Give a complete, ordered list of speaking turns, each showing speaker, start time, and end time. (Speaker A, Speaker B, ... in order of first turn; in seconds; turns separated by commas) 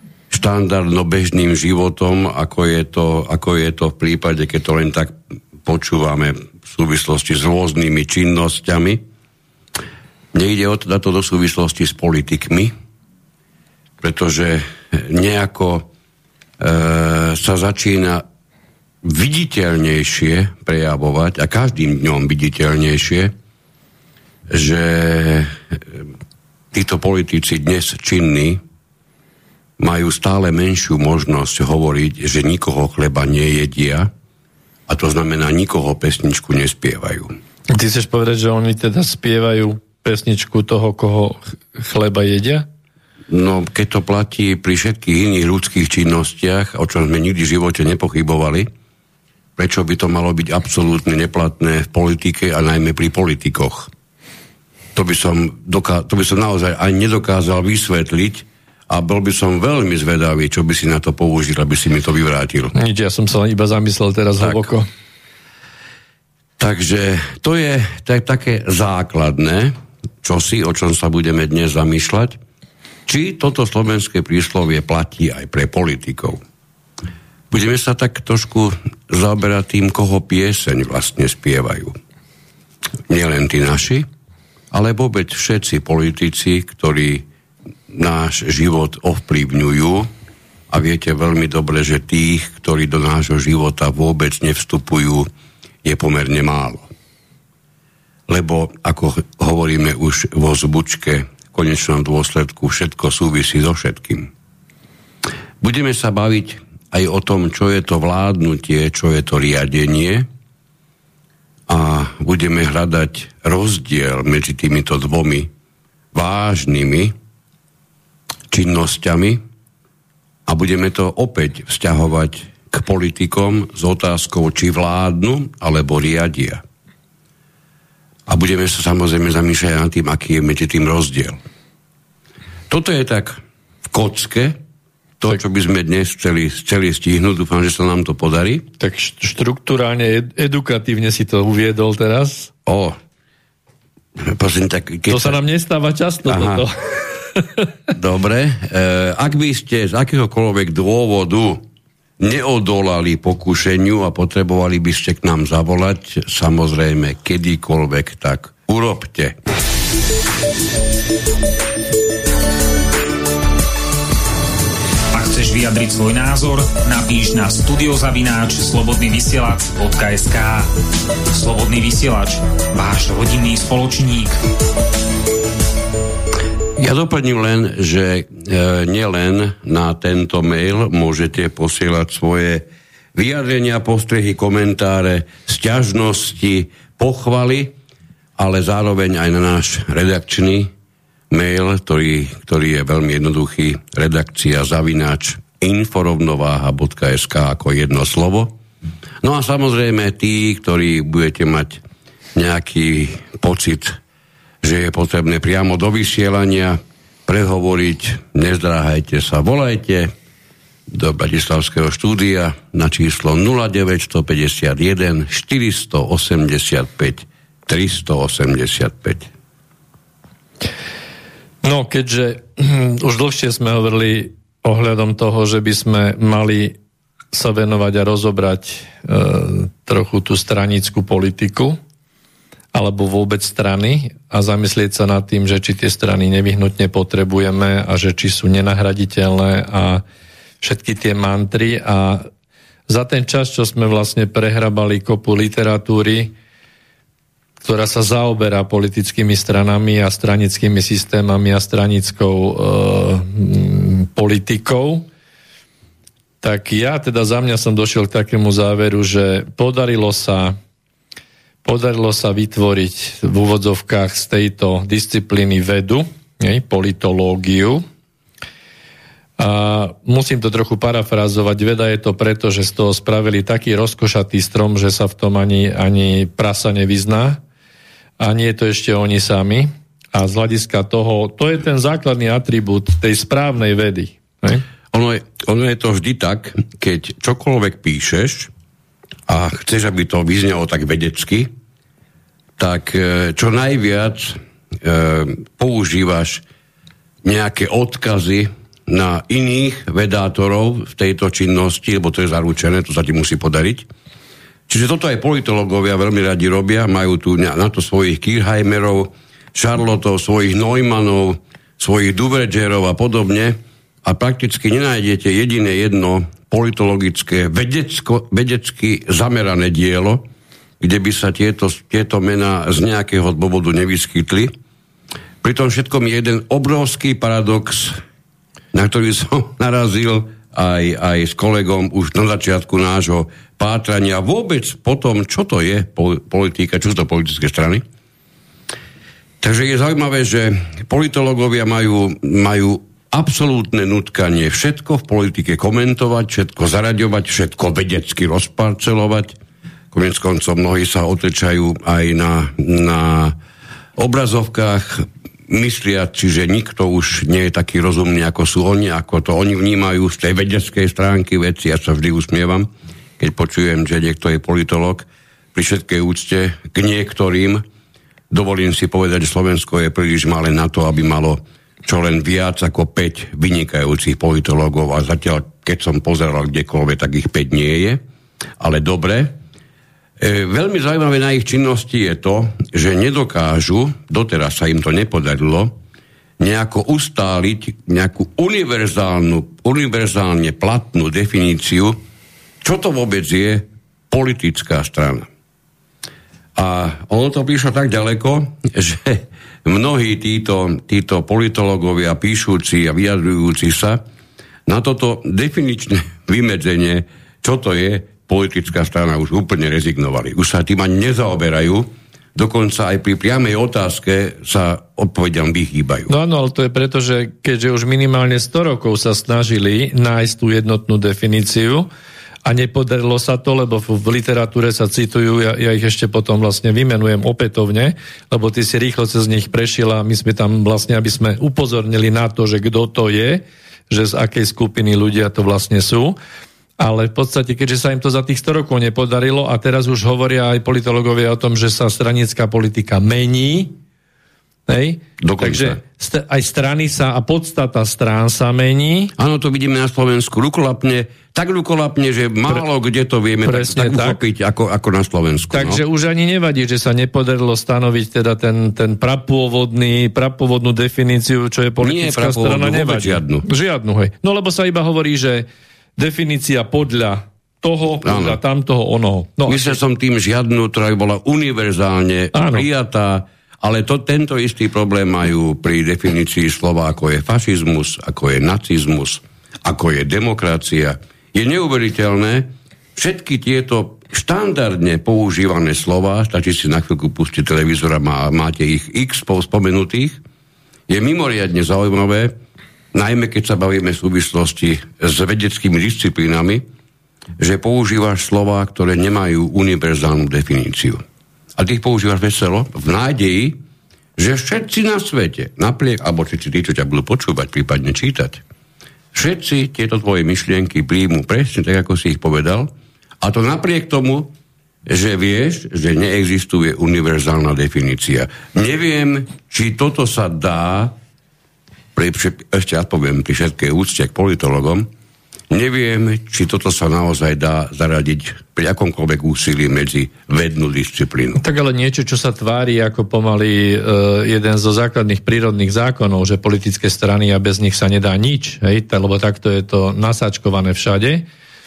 Speaker A: 0.3-9.0, Speaker A: 10.3-12.7, Speaker A: 14.0-15.9, Speaker A: 16.6-18.2, Speaker A: 19.0-23.3, Speaker A: 24.5-26.0, Speaker A: 26.7-28.6, Speaker A: 29.8-34.1, Speaker A: 34.9-37.3, Speaker B: 37.7-42.7, Speaker A: 43.3-48.7, Speaker A: 49.6-53.9, Speaker A: 55.0-62.7, Speaker B: 62.8-64.9, Speaker A: 64.4-64.7, Speaker A: 66.6-72.4, Speaker A: 73.1-76.4, Speaker A: 77.5-82.0, Speaker A: 83.1-84.1, Speaker A: 84.7-87.3, Speaker A: 87.9-90.1, Speaker A: 90.7-95.3, Speaker A: 95.8-96.9, Speaker A: 98.3-104.3, Speaker A: 105.6-110.3, Speaker A: 111.7-115.5, Speaker A: 116.1-117.1, Speaker A: 118.5-119.4, Speaker A: 120.5-126.6, Speaker A: 128.3-131.4, Speaker A: 132.7-134.6, Speaker A: 135.2-138.7, Speaker B: 138.8-142.5, Speaker A: 142.7-143.0, Speaker A: 144.2-145.4, Speaker B: 145.1-147.7, Speaker A: 146.3-146.7, Speaker A: 147.9-151.7, Speaker A: 152.2-159.4, Speaker C: 165.1-170.7, Speaker C: 171.3-174.4, Speaker A: 176.8-187.8, Speaker A: 188.4-190.7, Speaker A: 191.3-198.6, Speaker A: 199.2-201.8, Speaker A: 202.3-204.0, Speaker A: 204.6-210.1, Speaker A: 210.9-219.3, Speaker B: 221.6-226.8, Speaker B: 227.3-231.8, Speaker B: 232.7-240.0, Speaker B: 240.6-242.3, Speaker B: 242.9-246.3, Speaker B: 247.6-255.1, Speaker B: 256.4-260.6, Speaker B: 261.6-267.8, Speaker B: 269.4-277.4, Speaker B: 278.2-284.6, Speaker A: 284.9-288.5, Speaker A: 289.3-291.5, Speaker A: 292.6-296.4, Speaker A: 297.2-303.9, Speaker A: 304.7-320.3, Speaker A: 320.8-324.5, Speaker A: 325.4-328.0, Speaker A: 328.7-337.8, Speaker A: 339.4-349.4, Speaker A: 349.9-353.4, Speaker A: 354.0-367.6, Speaker A: 368.3-378.0, Speaker A: 378.6-379.4, Speaker A: 380.2-385.8, Speaker A: 386.4-392.0, Speaker A: 392.6-395.3, Speaker A: 396.6-404.0, Speaker A: 404.7-416.1, Speaker B: 416.1-421.9, Speaker B: 422.5-436.2, Speaker B: 436.8-443.8, Speaker B: 444.7-449.1, Speaker A: 445.2-445.8, Speaker A: 449.2-455.8, Speaker B: 453.4-454.2, Speaker B: 455.5-469.8, Speaker A: 461.8-463.5, Speaker A: 468.0-468.4, Speaker A: 469.5-490.2, Speaker B: 472.3-472.7, Speaker A: 490.9-492.4, Speaker A: 492.9-496.6, Speaker A: 497.4-501.0, Speaker A: 501.6-503.6, Speaker A: 504.2-508.4, Speaker A: 509.1-514.3, Speaker A: 514.9-521.0, Speaker A: 522.0-524.9, Speaker A: 525.5-531.4, Speaker B: 531.4-541.3